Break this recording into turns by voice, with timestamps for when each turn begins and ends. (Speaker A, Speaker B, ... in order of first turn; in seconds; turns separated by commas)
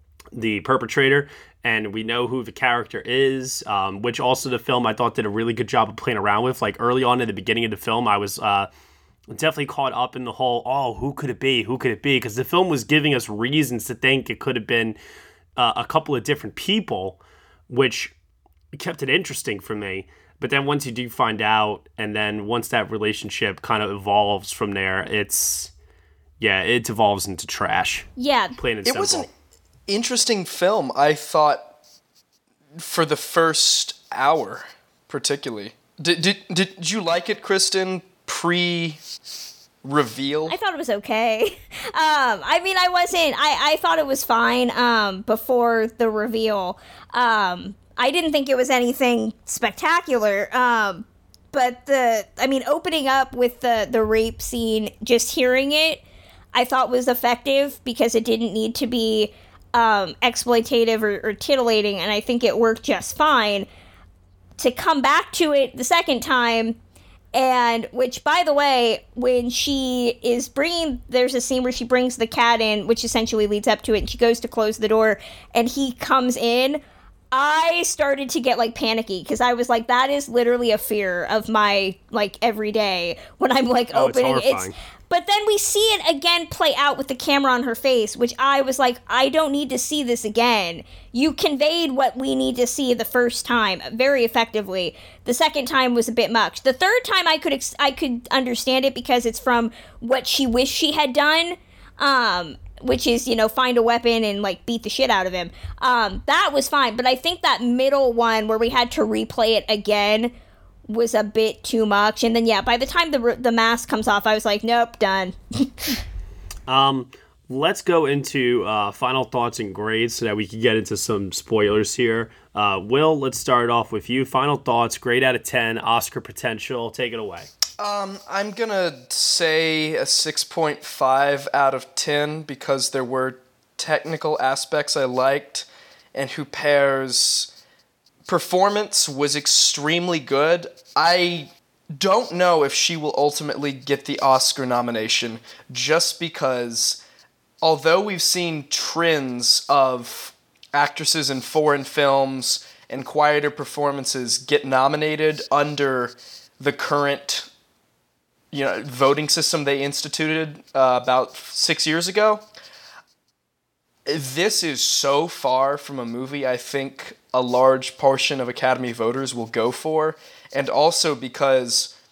Speaker A: 0.3-8.7, Speaker A: 9.3-14.9, Speaker A: 15.6-18.1, Speaker A: 18.7-25.7, Speaker A: 26.4-29.3, Speaker B: 28.2-28.6, Speaker C: 28.8-29.3, Speaker C: 29.9-31.7, Speaker C: 32.8-39.0, Speaker C: 39.8-40.5, Speaker B: 40.5-56.0, Speaker B: 56.5-63.7, Speaker B: 64.6-66.8, Speaker B: 67.3-76.8, Speaker B: 77.3-110.3, Speaker A: 83.9-84.7, Speaker B: 110.9-116.0, Speaker A: 116.7-127.5, Speaker C: 127.8-137.5, Speaker C: 138.2-147.0, Speaker C: 147.6-157.5, Speaker C: 158.5-162.4, Speaker C: 164.1-171.9